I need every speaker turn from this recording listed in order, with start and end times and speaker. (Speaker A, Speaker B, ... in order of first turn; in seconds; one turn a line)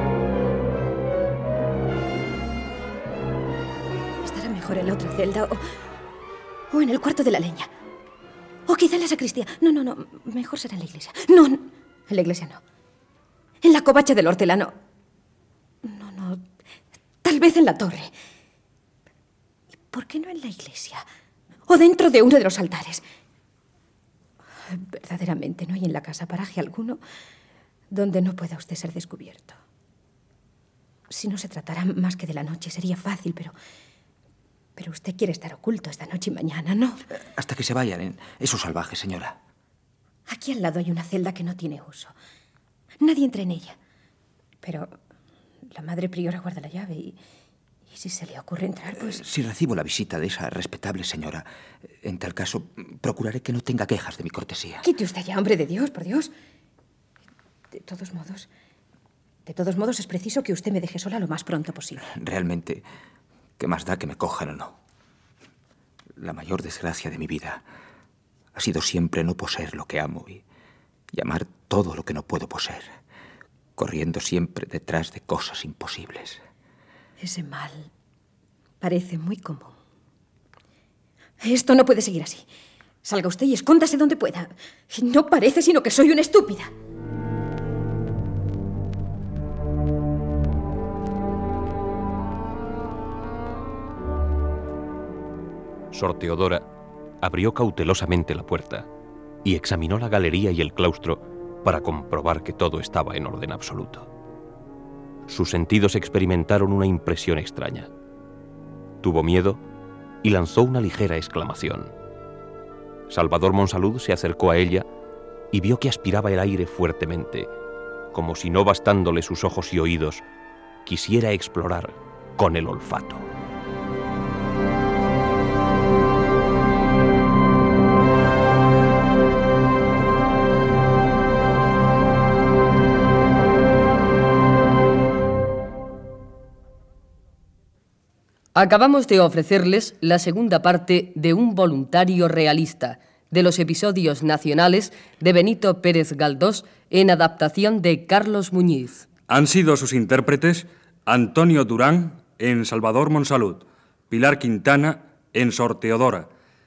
Speaker A: 4.2-5.6
Speaker A: 6.7-7.7
Speaker A: 8.7-12.6
Speaker A: 13.6-14.7
Speaker A: 15.8-16.4
Speaker A: 17.2-18.1
Speaker A: 19.9-21.0
Speaker A: 21.7-23.0
Speaker A: 24.7-27.0
Speaker A: 27.9-29.6
Speaker A: 31.1-33.5
Speaker A: 34.8-37.0
Speaker B: 37.1-39.4
Speaker A: 40.3-42.1
Speaker A: 43.0-43.8
Speaker A: 44.6-44.9
Speaker A: 45.7-47.2
Speaker A: 47.9-49.2
Speaker B: 49.0-51.5
Speaker B: 52.0-54.9
Speaker A: 54.8-56.3
Speaker A: 57.7-58.5
Speaker A: 59.5-62.0
Speaker B: 62.0-62.8
Speaker B: 63.6-64.8
Speaker B: 66.2-67.6
Speaker B: 68.5-70.4
Speaker B: 71.1-72.9
Speaker B: 73.8-76.4
Speaker A: 77.2-77.9
Speaker A: 78.8-79.8
Speaker A: 81.4-82.4
Speaker A: 83.0-86.7
Speaker C: 95.9-96.6
Speaker C: 97.2-98.9
Speaker C: 99.4-104.1
Speaker C: 105.3-107.9
Speaker C: 109.0-109.6
Speaker C: 110.2-111.9
Speaker C: 113.1-114.8
Speaker C: 115.5-117.5
Speaker C: 118.1-120.2
Speaker C: 120.8-123.3
Speaker D: 138.5-149.1
Speaker E: 149.3-156.3